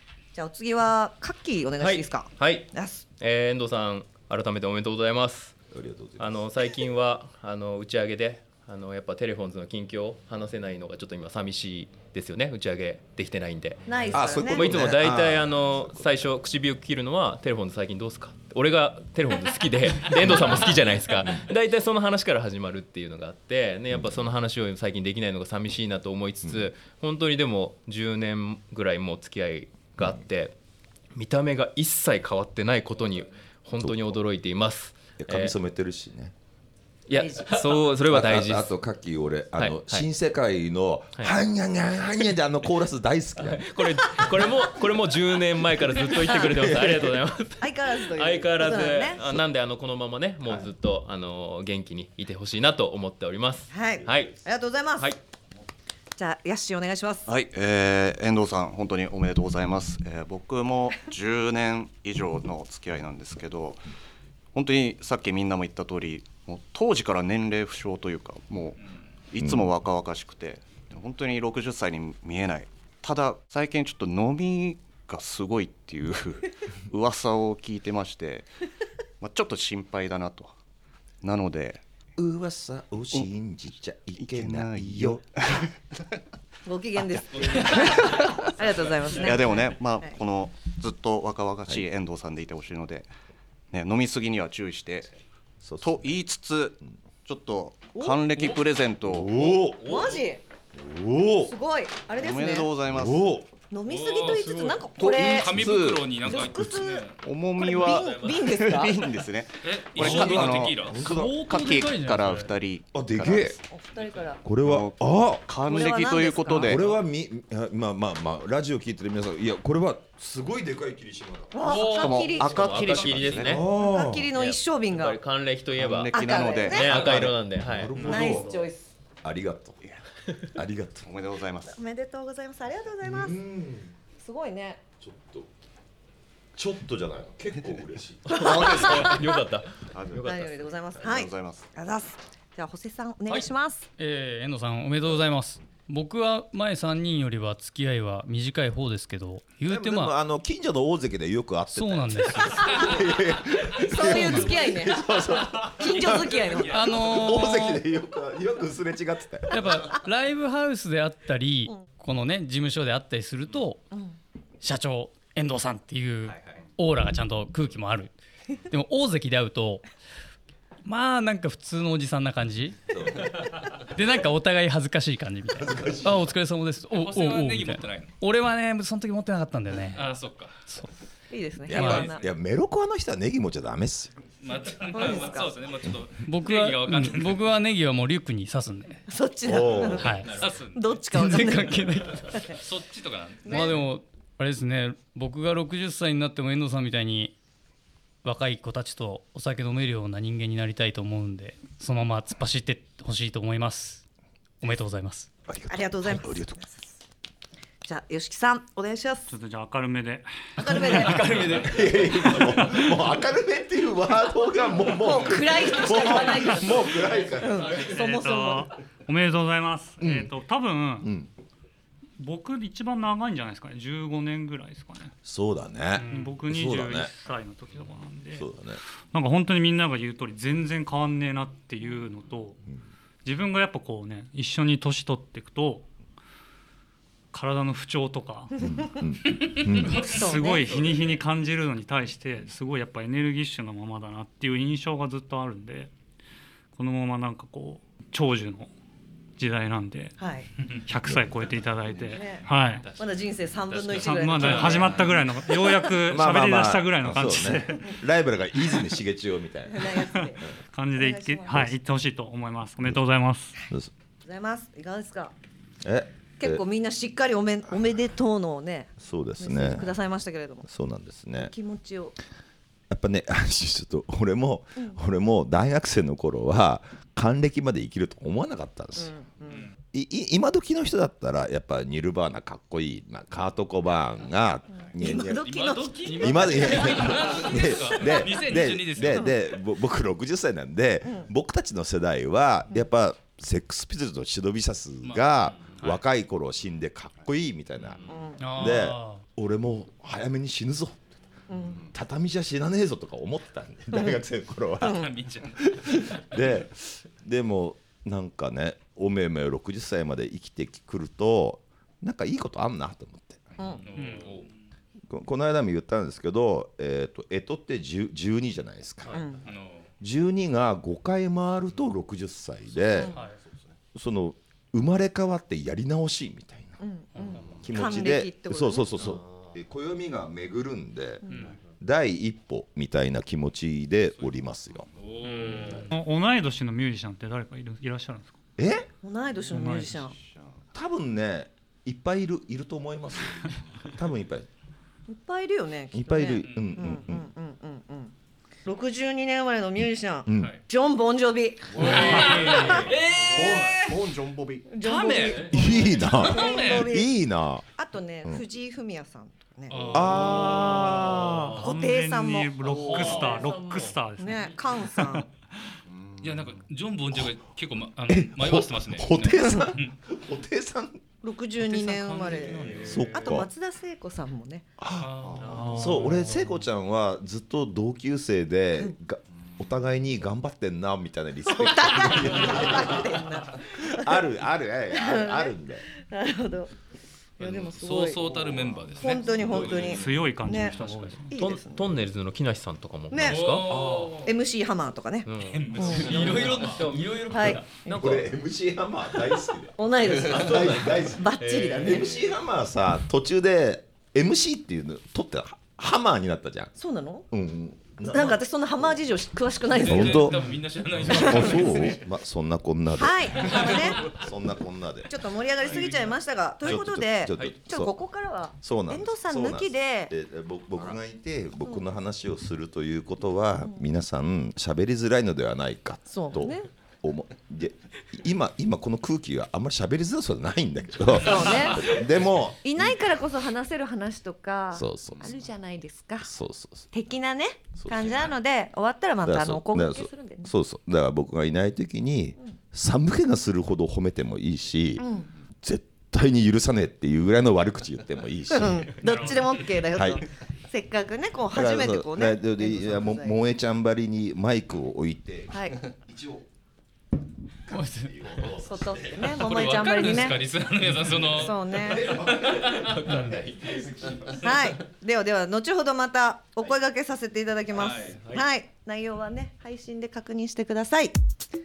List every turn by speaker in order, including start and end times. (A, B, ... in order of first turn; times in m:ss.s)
0:00.3-0:03.0 A
0:01.8-0:05.6 B
0:05.7-0:06.4 C
0:06.2-0:30.5 B
0:13.9-0:14.7 A
0:14.1-0:16.3 C
0:31.1-0:35.6 B
0:33.8-0:34.2 C
0:35.2-0:36.3 C
0:37.1-0:38.8 B
0:37.1-0:37.6 A
0:38.1-0:43.6 C
0:39.6-0:40.1 B
0:43.4-0:54.4 B
0:46.1-0:46.7 A
0:47.6-0:49.2 A
0:53.7-0:55.1 A
0:56.1-0:57.3 A
0:57.3-1:03.8 D
1:04.5-1:18.5 D
1:09.4-1:09.7 C
1:19.2-1:20.5 D
1:21.2-1:21.8 D
1:22.2-1:25.4 C
1:24.2-1:25.7 D
1:26.6-1:30.2 A
1:29.1-1:33.1 D
1:33.7-1:35.1 D
1:35.6-1:36.1 C
1:35.8-1:39.7 D
1:38.0-1:38.2 A
1:39.0-1:40.2 C
1:39.8-1:40.4 A
1:40.7-1:41.5 C
1:41.4-1:42.7 A
1:42.2-1:43.2 D
1:42.9-1:43.5 C
1:43.7-1:45.6 A
1:43.9-1:47.2 E
1:45.0-1:46.1 D
1:46.2-1:49.1 A
1:47.2-1:53.6 D
1:47.8-1:48.5 B
1:49.6-1:51.1 E
1:50.0-1:52.5 F
1:50.8-1:51.4 C
1:52.9-1:53.6 C
1:53.7-1:54.4 A
1:54.4-1:55.5 C
1:54.6-1:56.8 D
1:55.7-1:56.8 A
1:56.6-2:01.6 C
2:01.5-2:02.6 A
2:01.6-2:03.6 D
2:01.7-2:03.6 B
2:02.9-2:04.2 C
2:03.6-2:05.2 A
2:04.3-2:08.1 B
2:05.8-2:07.3 D
2:06.1-2:07.0 A
2:07.5-2:08.5 C
2:08.0-2:08.9 A
2:09.2-2:09.8 C
2:10.6-2:11.1 C
2:11.0-2:11.8 D
2:11.7-2:13.4 A
2:13.0-2:13.9 C
2:14.2-2:14.8 A
2:15.0-2:15.5 C
2:16.6-2:18.2 C
2:18.3-2:21.1 B
2:18.3-2:19.2 A
2:18.4-2:19.0 D
2:19.9-2:20.2 D
2:20.2-2:23.9 A
2:21.0-2:21.7 D
2:24.0-2:30.2 F
2:29.7-2:39.8 C
2:31.7-2:32.7 F
2:33.9-2:35.0 A
2:34.0-2:34.4 F
2:35.8-2:36.9 A
2:35.9-2:37.5 E
2:36.7-2:37.8 F
2:39.5-2:43.8 F
2:43.9-2:44.2 A
2:44.6-2:48.1 F
2:46.2-2:46.6 B
2:48.7-2:49.8 F
2:50.8-2:52.8 F
2:52.9-2:53.3 C
2:53.9-3:00.1 F
2:55.6-2:56.3 C
2:56.9-2:58.1 E
2:59.9-3:00.7 E
3:01.3-3:02.2 A
3:01.7-3:04.1 C
3:01.7-3:02.1 F
3:04.4-3:07.5 E
3:04.9-3:05.5 A
3:06.2-3:09.0 F
3:09.1-3:12.6 A
3:09.4-3:10.1 C
3:10.0-3:10.3 F
3:10.2-3:10.4 B
3:10.3-3:11.0 E
3:11.1-3:12.2 F
3:12.4-3:13.7 E
3:13.4-3:17.3 F
3:13.5-3:13.8 A
3:18.2-3:24.0 F
3:24.6-3:25.3 F
3:25.5-3:26.6 C
3:25.7-3:26.9 A
3:27.8-3:29.3 A
3:29.3-3:31.5 G
3:30.6-3:31.7 A
3:31.2-3:37.8 C
3:34.8-3:38.7 A
3:37.8-3:41.1 G
3:40.0-3:40.3 C
3:41.0-3:41.3 C
3:42.2-3:45.1 G
3:45.2-3:47.1 C
3:46.0-3:48.4 G
3:48.3-3:48.8 C
3:49.1-3:52.6 G
3:53.2-3:55.9 G
3:57.3-3:58.5 G
3:58.6-4:00.1 C
3:59.6-4:00.0 E
3:59.8-4:00.9 A
3:59.9-4:05.9 G
4:00.7-4:01.2 B
4:06.7-4:08.7 G
4:09.4-4:10.1 G
4:10.2-4:10.5 A
4:10.9-4:12.8 G
4:11.1-4:11.3 C
4:12.1-4:15.9 A
4:12.8-4:15.0 B
4:13.9-4:17.8 G
4:16.1-4:20.5 C
4:19.7-4:20.4 A
4:20.7-4:23.6 G
4:20.9-4:21.8 A
4:24.2-4:25.3 A
4:25.8-4:26.6 C
4:26.4-4:30.7 A
4:29.0-4:29.9 C
4:30.6-4:31.5 C
4:31.4-4:32.1 A
4:32.9-4:39.1 C
4:39.0-4:39.7 A
4:39.9-4:58.0 C
4:44.7-4:47.4 A
4:45.0-4:49.3 E
4:48.6-4:49.3 A
4:55.0-4:55.9 E
4:58.1-4:58.4 A
4:58.4-4:59.2 F
4:58.5-5:01.1 C
5:01.5-5:01.8 A
5:01.9-5:05.1 C
5:04.8-5:05.1 A
5:04.8-5:05.6 E
5:06.0-5:13.5 C
5:13.6-5:13.8 A
5:13.8-5:14.5 E
5:14.0-5:14.2 G
5:15.1-5:19.2 C
5:19.1-5:19.4 A
5:19.4-5:19.9 E
5:20.0-5:23.2 C
5:23.0-5:23.7 D
5:23.9-5:26.8 C
5:26.8-5:29.1 A
5:27.6-5:34.9 C
5:29.0-5:29.5 B
5:31.2-5:31.5 A
5:35.0-5:35.9 E
5:35.2-5:38.4 G
5:38.6-5:38.9 C
5:39.0-5:40.2 A
5:39.5-5:40.0 G
5:40.0-5:40.6 D
5:40.7-5:44.5 C
5:45.1-5:48.1 A
5:45.9-5:47.3 C
5:46.4-5:46.8 E
5:48.6-5:52.9 A
5:50.2-5:50.5 C
5:51.8-5:52.6 D
5:51.8-5:53.5 B
5:51.9-5:52.6 G
5:52.2-5:53.8 E
5:53.2-5:54.7 D
5:54.7-5:57.1 A
5:54.8-5:56.9 E
5:55.5-5:57.7 C
5:57.8-6:00.3 A
5:59.7-6:00.4 G
5:59.9-6:01.6 C
6:00.2-6:01.6 B
6:01.5-6:05.2 G
6:01.6-6:05.3 A
6:02.7-6:03.3 D
6:02.9-6:03.9 B
6:05.9-6:06.6 D
6:06.2-6:09.9 E
6:08.1-6:11.0 C
6:11.2-6:14.7 A
6:11.6-6:13.3 E
6:12.7-6:13.5 C
6:14.8-6:25.8 C
6:15.0-6:16.0 E
6:15.2-6:15.7 D
6:15.4-6:16.2 B
6:15.6-6:16.1 G
6:21.5-6:24.2 A
6:24.9-6:25.5 A
6:26.0-6:26.7 A
6:27.4-6:30.8 A
6:27.4-6:31.2 E
6:29.5-6:29.8 B
6:29.8-6:31.4 G
6:31.3-6:32.0 A
6:31.3-6:33.9 B
6:33.1-6:36.3 A
6:33.2-6:34.3 E
6:35.2-6:38.3 B
6:35.4-6:37.1 E
6:37.2-6:38.2 A
6:37.9-6:46.7 C
6:39.8-6:42.2 A
6:40.3-6:42.1 B
6:46.8-6:47.3 A
6:47.3-6:49.0 C
6:48.1-6:50.4 A
6:49.7-6:52.0 E
6:49.8-6:50.4 C
6:50.9-6:55.1 C
6:51.1-6:51.7 A
6:52.9-6:54.1 A
6:55.1-7:00.1 A
6:55.6-6:55.9 C
6:56.6-6:57.9 C
6:58.6-7:13.0 C
7:06.1-7:06.7 A
7:11.2-7:12.0 A
7:12.6-7:16.3 A
7:14.7-7:15.3 C
7:16.2-7:16.9 C
7:16.9-7:20.5 A
7:17.8-7:18.3 C
7:19.2-7:25.0 C
7:25.0-7:25.3 A
7:25.6-7:29.1 C
7:28.5-7:33.4 A
7:29.0-7:29.5 G
7:29.9-7:30.2 C
7:31.5-7:36.4 C
7:35.5-7:35.8 A
7:37.7-7:38.1 F
7:37.7-7:39.5 C
7:38.6-7:40.4 A
7:39.2-7:41.6 E
7:41.3-7:42.2 A
7:42.0-7:42.6 C
7:42.0-7:44.4 B
7:44.4-7:51.1 A
7:47.7-7:48.2 E
7:48.2-7:48.4 B